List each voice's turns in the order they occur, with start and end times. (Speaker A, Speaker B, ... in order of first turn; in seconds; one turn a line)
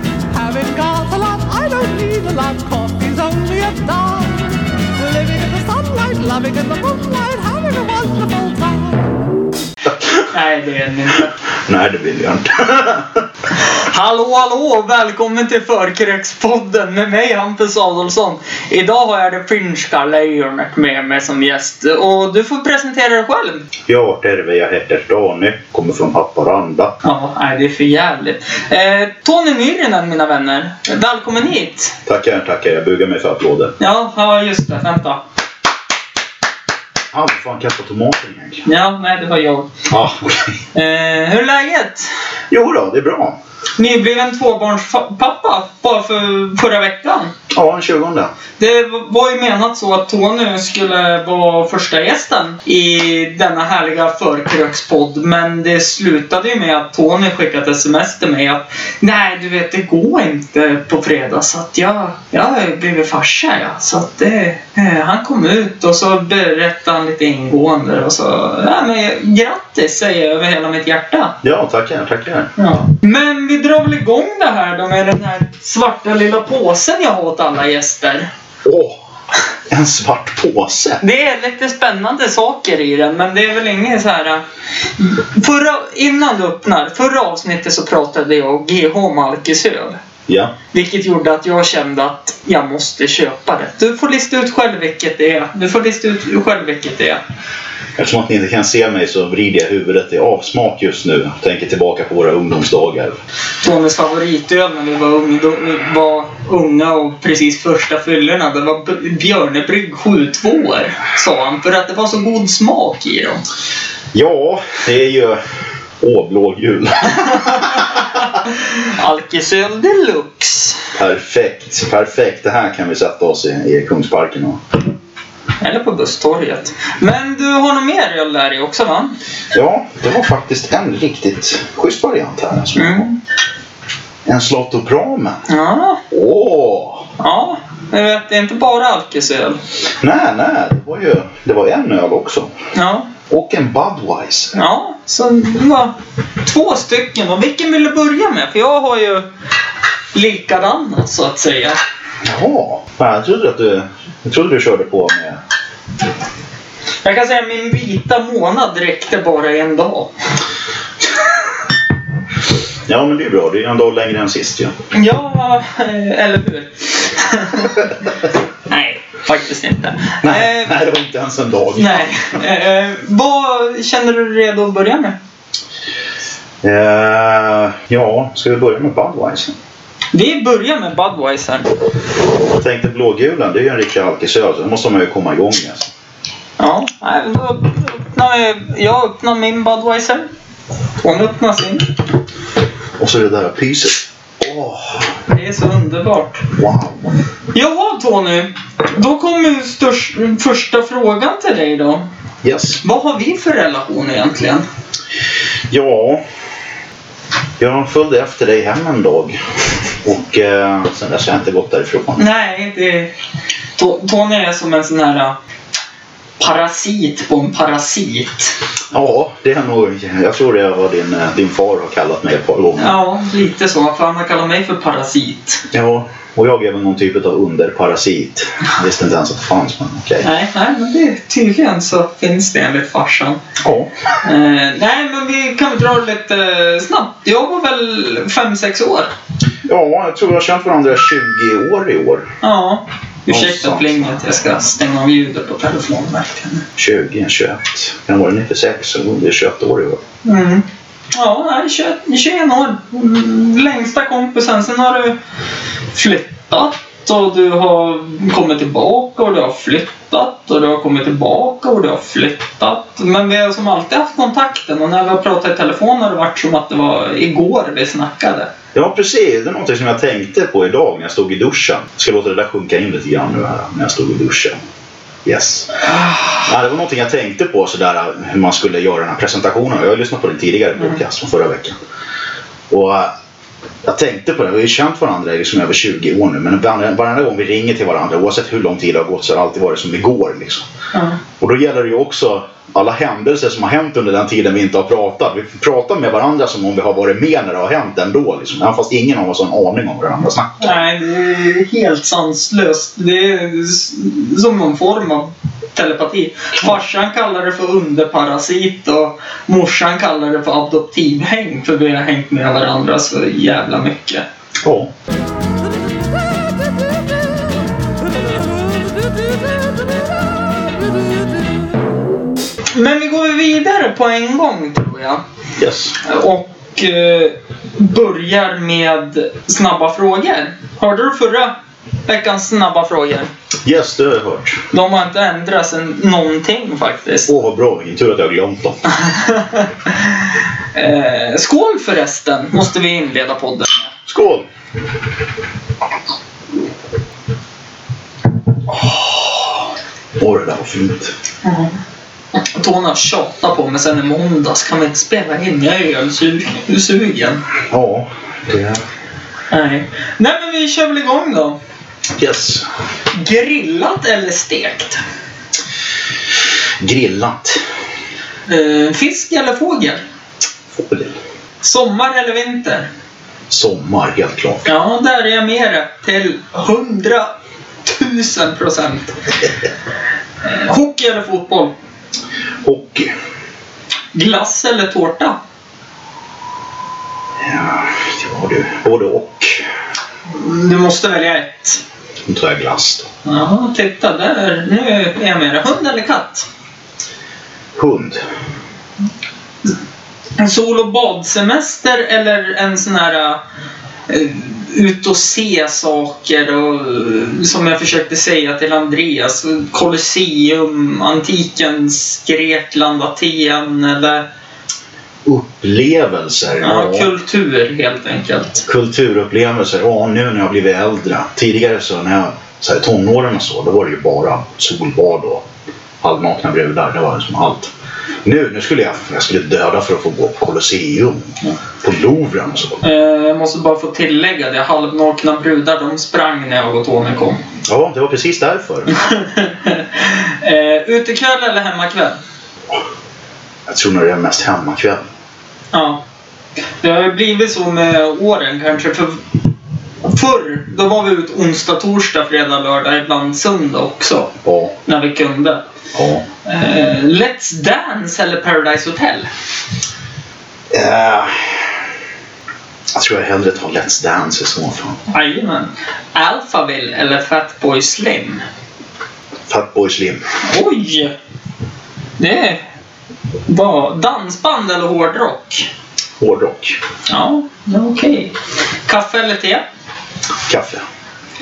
Speaker A: 0.3-9.2
Speaker B: 10.3-11.3
Speaker C: 11.7-13.2
Speaker B: 13.5-23.7
Speaker C: 23.9-26.9
Speaker B: 27.0-32.0
Speaker C: 32.0-33.7
Speaker B: 33.8-35.2
Speaker C: 37.1-38.6
Speaker B: 38.6-39.7
Speaker C: 39.9-40.6
Speaker B: 40.7-42.1
Speaker C: 42.5-43.4
Speaker B: 43.8-47.3
Speaker C: 47.5-48.3
Speaker B: 48.6-71.3
Speaker C: 71.4-72.5
Speaker B: 72.6-78.3
Speaker C: 78.6-79.0
Speaker C: 79.7-81.0
Speaker B: 81.0-84.4
Speaker B: 85.0-90.0
Speaker C: 90.3-90.5
Speaker B: 90.7-97.2
Speaker C: 98.0-103.2
Speaker B: 103.6-113.4
Speaker C: 114.1-115.4
Speaker C: 116.0-118.0
Speaker B: 117.2-120.8
Speaker C: 120.9-124.6
Speaker B: 125.6-129.1
Speaker C: 129.5-133.1
Speaker B: 132.8-133.2
Speaker C: 134.2-135.4
Speaker B: 135.5-136.0
Speaker C: 136.1-137.1
Speaker B: 137.2-139.6
Speaker C: 140.0-142.5
Speaker B: 142.7-143.1
Speaker C: 143.3-144.5
Speaker B: 144.5-149.3
Speaker B: 150.1-151.8
Speaker C: 152.2-155.4
Speaker B: 157.0-160.1
Speaker C: 162.8-164.7
Speaker B: 164.9-168.0
Speaker B: 168.7-170.7
Speaker C: 170.2-172.4
Speaker B: 171.8-175.2
Speaker C: 176.6-179.5
Speaker B: 180.1-181.7
Speaker C: 182.5-185.9
Speaker B: 186.6-190.3
Speaker B: 191.0-191.9
Speaker C: 193.0-195.2
Speaker B: 195.3-196.5
Speaker C: 196.5-197.1
Speaker B: 197.5-202.0
Speaker C: 202.4-202.8
Speaker B: 202.8-204.7
Speaker C: 205.7-206.2
Speaker C: 207.6-209.4
Speaker C: 210.0-212.2
Speaker B: 212.2-213.1
Speaker B: 213.8-215.3
Speaker B: 216.4-218.5
Speaker C: 218.9-223.0
Speaker B: 222.8-225.6
Speaker C: 225.7-230.2
Speaker B: 230.2-233.4
Speaker C: 233.6-233.9
Speaker B: 234.2-239.1
Speaker C: 239.7-242.3
Speaker B: 242.4-246.6
Speaker C: 243.3-244.2
Speaker C: 246.8-250.0
Speaker B: 250.2-255.2
Speaker B: 255.9-268.5
Speaker C: 268.7-274.6
Speaker C: 275.2-275.8
Speaker B: 276.0-276.4
Speaker C: 276.4-281.8
Speaker C: 282.7-283.1
Speaker C: 283.8-290.7
Speaker B: 290.9-291.2
Speaker C: 291.4-300.7
Speaker B: 300.6-314.2
Speaker C: 314.6-314.9
Speaker A: 315.8-317.1
Speaker A: 318.2-321.1
Speaker B: 322.7-325.2
Speaker C: 325.6-326.0
Speaker B: 326.0-331.5
Speaker B: 332.1-333.3
Speaker C: 333.6-334.6
Speaker B: 334.7-337.3
Speaker C: 337.3-338.8
Speaker B: 339.0-343.9
Speaker C: 344.1-344.5
Speaker B: 348.7-349.5
Speaker C: 350.1-351.1
Speaker B: 351.4-351.7
Speaker B: 352.3-357.4
Speaker C: 357.7-358.8
Speaker B: 359.5-361.6
Speaker C: 362.1-362.7
Speaker B: 363.1-365.0
Speaker C: 366.8-367.6
Speaker B: 368.5-370.0
Speaker C: 370.7-371.1
Speaker B: 371.6-372.9
Speaker C: 373.5-374.6
Speaker B: 374.6-377.3
Speaker B: 377.8-379.2
Speaker B: 380.4-381.7
Speaker C: 382.6-383.1
Speaker B: 384.1-385.4
Speaker C: 387.4-389.6
Speaker B: 390.3-391.8
Speaker C: 392.3-393.1
Speaker B: 393.2-396.5
Speaker C: 397.7-398.2
Speaker B: 400.4-403.4
Speaker B: 404.1-414.2
Speaker C: 415.2-417.1
Speaker B: 416.6-418.6
Speaker C: 418.7-425.4
Speaker C: 426.0-427.7
Speaker C: 428.2-432.8
Speaker B: 432.8-437.4
Speaker C: 437.7-439.0
Speaker B: 438.9-442.1
Speaker C: 443.7-445.0
Speaker B: 445.7-446.0
Speaker B: 446.8-449.2
Speaker B: 450.1-454.3
Speaker C: 454.4-454.7
Speaker B: 454.8-455.6
Speaker C: 455.9-456.2
Speaker B: 456.4-459.3
Speaker C: 460.7-461.8
Speaker C: 462.9-465.0
Speaker B: 465.1-468.4
Speaker C: 469.5-470.2
Speaker B: 470.4-471.1
Speaker B: 472.2-472.6
Speaker B: 473.4-475.7
Speaker C: 476.2-476.8
Speaker B: 477.1-478.3
Speaker B: 478.9-479.6
Speaker C: 480.4-480.8